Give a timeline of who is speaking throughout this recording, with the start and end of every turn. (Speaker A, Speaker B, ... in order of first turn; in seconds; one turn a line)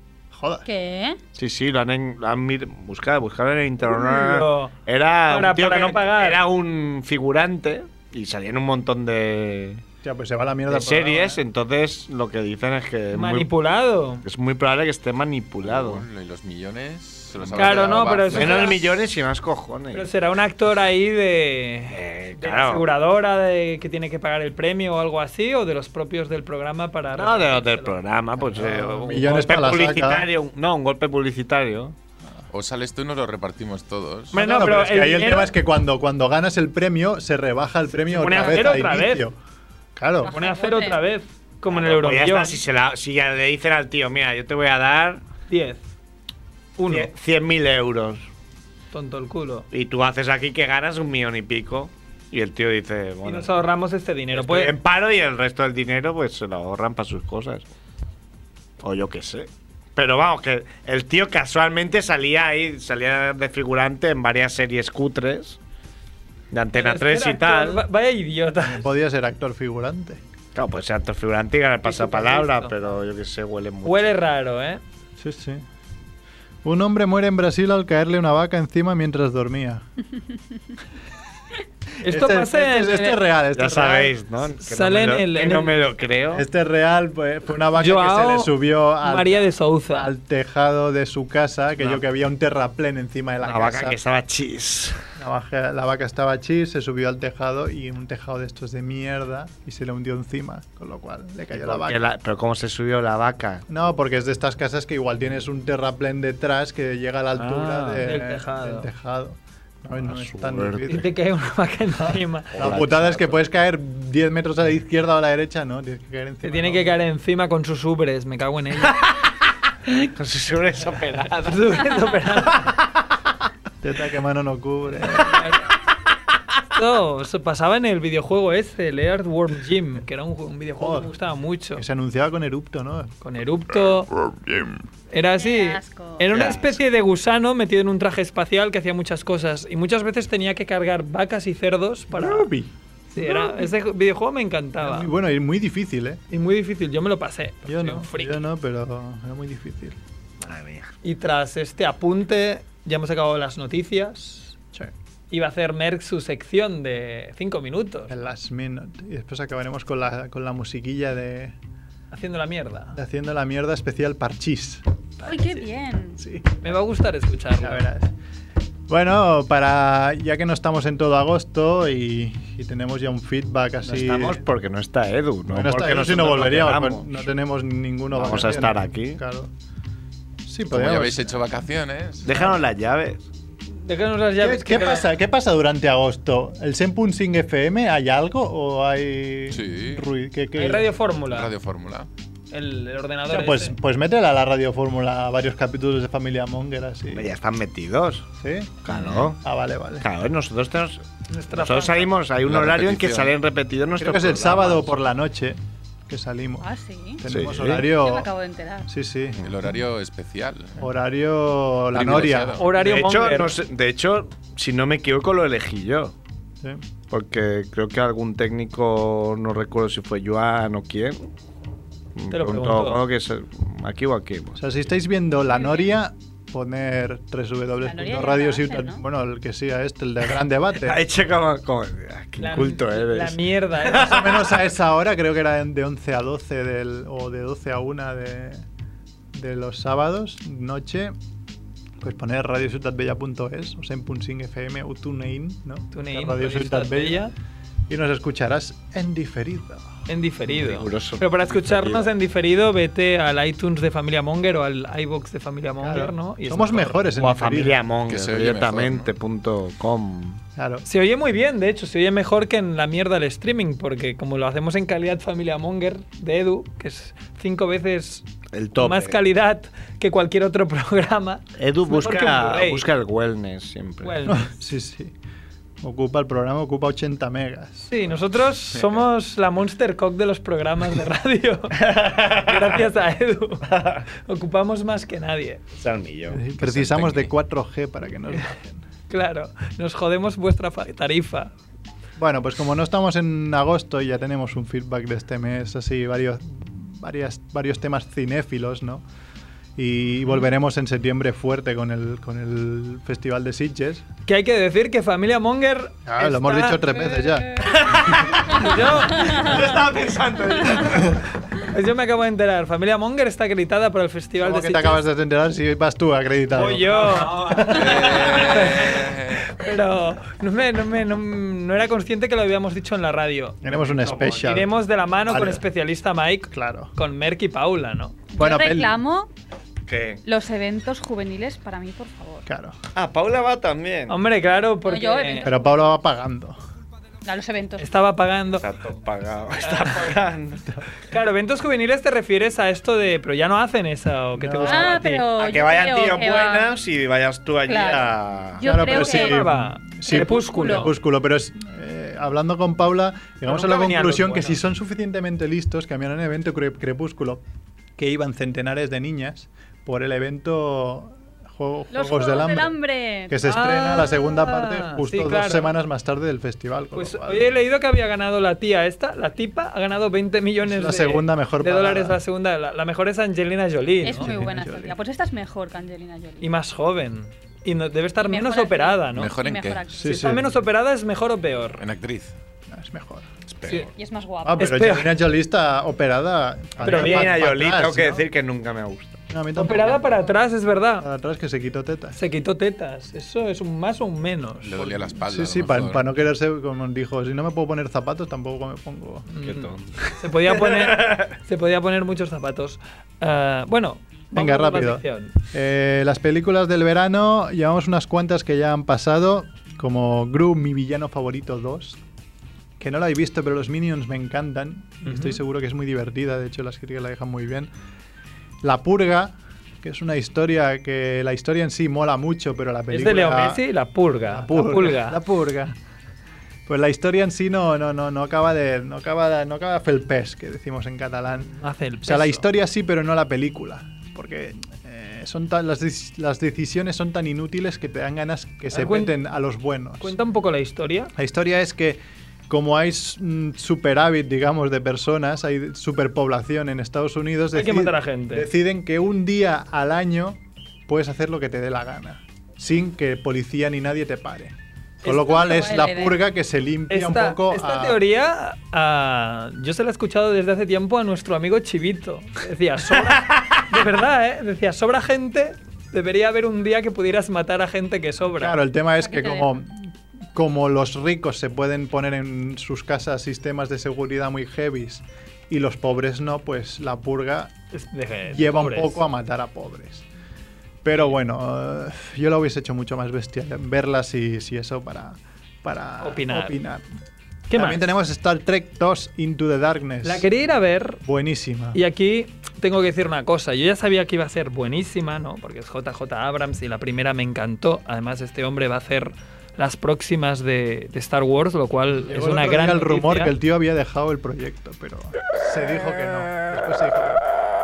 Speaker A: 0.3-0.7
Speaker B: 0.6-1.2
Speaker C: 1.3-9.8
Speaker D: 3.8-4.7
Speaker D: 5.3-6.4
Speaker A: 10.0-11.4
Speaker C: 10.7-13.5
Speaker D: 13.1-14.2
Speaker C: 14.2-16.0
Speaker E: 15.6-18.8
Speaker C: 17.4-20.1
Speaker D: 17.6-18.8
Speaker D: 19.9-28.0
Speaker C: 21.9-22.9
Speaker C: 27.1-31.9
Speaker A: 28.5-30.3
Speaker E: 32.5-34.4
Speaker D: 34.3-35.5
Speaker A: 34.3-39.4
Speaker D: 38.1-39.2
Speaker A: 40.0-40.3
Speaker B: 40.2-41.0
Speaker D: 40.3-42.6
Speaker C: 41.7-45.2
Speaker D: 45.5-45.8
Speaker D: 46.8-47.1
Speaker C: 46.9-48.2
Speaker D: 48.9-49.6
Speaker C: 49.7-53.5
Speaker D: 53.2-54.7
Speaker C: 54.3-57.6
Speaker C: 58.8-65.6
Speaker C: 66.5-67.8
Speaker D: 66.7-68.9
Speaker A: 68.6-70.2
Speaker C: 70.5-74.1
Speaker D: 71.8-73.0
Speaker D: 73.8-74.8
Speaker A: 75.2-75.6
Speaker A: 76.6-79.8
Speaker D: 82.0-83.2
Speaker A: 82.0-84.1
Speaker C: 83.5-86.4
Speaker D: 84.6-85.7
Speaker A: 86.3-94.0
Speaker D: 87.8-90.1
Speaker C: 93.4-95.0
Speaker A: 95.2-102.0
Speaker C: 101.5-103.7
Speaker A: 103.7-111.1
Speaker C: 107.4-108.0
Speaker D: 107.9-108.9
Speaker C: 109.9-111.0
Speaker D: 110.9-112.5
Speaker C: 112.5-113.4
Speaker A: 112.5-117.0
Speaker D: 116.4-119.0
Speaker C: 118.8-119.2
Speaker C: 119.8-123.0
Speaker D: 121.4-122.7
Speaker A: 123.8-125.5
Speaker D: 125.1-125.6
Speaker D: 126.7-131.8
Speaker A: 130.8-131.1
Speaker A: 131.8-133.1
Speaker D: 133.2-134.1
Speaker A: 134.1-134.8
Speaker D: 135.1-142.5
Speaker B: 135.4-136.2
Speaker C: 136.3-136.8
Speaker A: 142.1-143.7
Speaker D: 143.1-145.1
Speaker A: 144.8-146.2
Speaker D: 146.3-148.4
Speaker A: 147.6-150.0
Speaker C: 150.4-150.9
Speaker D: 151.0-154.5
Speaker D: 155.3-158.2
Speaker A: 158.1-161.6
Speaker D: 162.1-162.9
Speaker A: 162.9-164.8
Speaker D: 165.2-165.6
Speaker B: 165.2-166.2
Speaker A: 166.2-166.8
Speaker D: 166.6-167.8
Speaker A: 167.6-168.1
Speaker A: 168.9-174.4
Speaker C: 173.8-177.2
Speaker A: 175.5-179.5
Speaker C: 178.1-179.2
Speaker A: 180.4-181.4
Speaker E: 180.7-182.5
Speaker C: 182.2-183.2
Speaker D: 183.8-185.1
Speaker A: 184.4-190.9
Speaker E: 189.5-190.0
Speaker D: 190.6-191.5
Speaker E: 191.2-192.1
Speaker D: 192.5-193.8
Speaker A: 193.3-197.3
Speaker C: 197.1-198.3
Speaker A: 198.4-200.1
Speaker C: 198.8-199.4
Speaker C: 200.0-204.9
Speaker D: 201.3-202.1
Speaker E: 202.4-203.3
Speaker A: 204.0-208.3
Speaker B: 206.6-207.2
Speaker C: 207.3-207.8
Speaker B: 207.8-208.9
Speaker A: 208.9-209.4
Speaker E: 209.4-210.8
Speaker A: 210.8-212.6
Speaker E: 211.9-212.7
Speaker D: 212.6-213.5
Speaker C: 212.8-216.1
Speaker C: 217.1-221.3
Speaker C: 222.1-224.6
Speaker D: 222.3-223.0
Speaker A: 224.6-231.0
Speaker B: 225.5-225.9
Speaker B: 227.8-229.0
Speaker C: 230.8-234.4
Speaker D: 232.4-234.5
Speaker A: 233.9-238.7
Speaker A: 239.3-241.1
Speaker A: 242.0-247.3
Speaker D: 245.9-247.3
Speaker A: 247.9-249.9
Speaker D: 250.1-257.1
Speaker C: 250.5-252.1
Speaker A: 255.8-257.8
Speaker C: 257.2-260.4
Speaker E: 258.1-259.1
Speaker A: 260.6-260.8
Speaker D: 260.9-272.8
Speaker C: 268.5-269.2
Speaker C: 271.6-274.2
Speaker D: 274.0-274.5
Speaker A: 274.2-275.1
Speaker A: 275.8-277.9
Speaker D: 277.9-285.6
Speaker C: 281.8-282.8
Speaker C: 283.7-284.0
Speaker C: 285.8-287.2
Speaker A: 286.3-288.8
Speaker D: 289.1-291.5
Speaker A: 292.2-299.0
Speaker A: 299.8-304.1
Speaker D: 304.3-307.2
Speaker A: 306.1-308.0
Speaker C: 307.6-311.2
Speaker D: 308.5-309.6
Speaker D: 311.6-315.0
Speaker A: 314.4-318.1
Speaker D: 316.5-323.6
Speaker C: 316.9-318.3
Speaker E: 317.7-319.5
Speaker A: 323.6-324.7
Speaker C: 323.8-324.4
Speaker D: 324.3-328.2
Speaker A: 325.2-325.6
Speaker A: 326.5-326.9
Speaker B: 328.3-329.3
Speaker A: 328.4-329.0
Speaker C: 329.9-330.2
Speaker B: 330.2-332.4
Speaker A: 332.4-332.8
Speaker C: 332.9-334.2
Speaker D: 334.1-335.5
Speaker B: 334.8-335.9
Speaker A: 335.4-336.6
Speaker B: 337.2-337.9
Speaker D: 337.8-338.7
Speaker C: 338.6-340.8
Speaker D: 339.6-340.1
Speaker D: 341.1-345.3
Speaker A: 344.3-345.0
Speaker B: 344.6-346.7
Speaker C: 345.4-348.6
Speaker B: 347.7-349.4
Speaker A: 348.6-357.4
Speaker D: 348.8-350.9
Speaker B: 350.0-350.9
Speaker D: 353.5-354.6
Speaker A: 358.0-362.7
Speaker B: 361.9-363.4
Speaker A: 363.3-367.5
Speaker D: 363.4-365.7
Speaker D: 366.9-374.3
Speaker A: 370.6-372.2
Speaker B: 374.0-376.5
Speaker A: 374.1-375.0
Speaker D: 376.4-379.3
Speaker B: 378.2-380.4
Speaker E: 379.1-379.8
Speaker A: 379.9-380.5
Speaker D: 380.0-381.8
Speaker E: 381.8-382.3
Speaker A: 382.7-383.3
Speaker C: 383.5-383.9
Speaker B: 383.9-384.7
Speaker A: 384.4-388.2
Speaker D: 384.6-385.1
Speaker C: 386.8-389.2
Speaker D: 386.8-387.3
Speaker A: 389.3-390.2
Speaker D: 389.6-391.1
Speaker A: 391.0-392.2
Speaker D: 392.1-395.0
Speaker E: 394.6-396.0
Speaker A: 395.1-399.3
Speaker D: 399.3-405.3
Speaker C: 399.4-401.3
Speaker A: 404.3-412.0
Speaker A: 412.8-417.7
Speaker D: 415.0-415.4
Speaker A: 418.6-423.6
Speaker D: 422.9-425.2
Speaker A: 424.2-425.7
Speaker A: 426.7-440.2
Speaker D: 431.6-432.4
Speaker D: 438.7-439.1
Speaker D: 440.0-441.1
Speaker A: 441.1-458.0
Speaker D: 447.5-448.5
Speaker D: 455.0-455.7
Speaker B: 455.3-456.2
Speaker D: 456.9-468.6
Speaker C: 463.1-463.6
Speaker A: 468.3-477.5
Speaker B: 469.0-469.5
Speaker D: 477.7-479.0
Speaker A: 478.3-480.1
Speaker A: 480.8-486.9
Speaker D: 486.0-486.6
Speaker D: 487.5-487.9
Speaker A: 487.5-490.3
Speaker D: 490.0-491.0
Speaker A: 491.0-491.8
Speaker D: 491.7-503.3
Speaker A: 502.0-507.2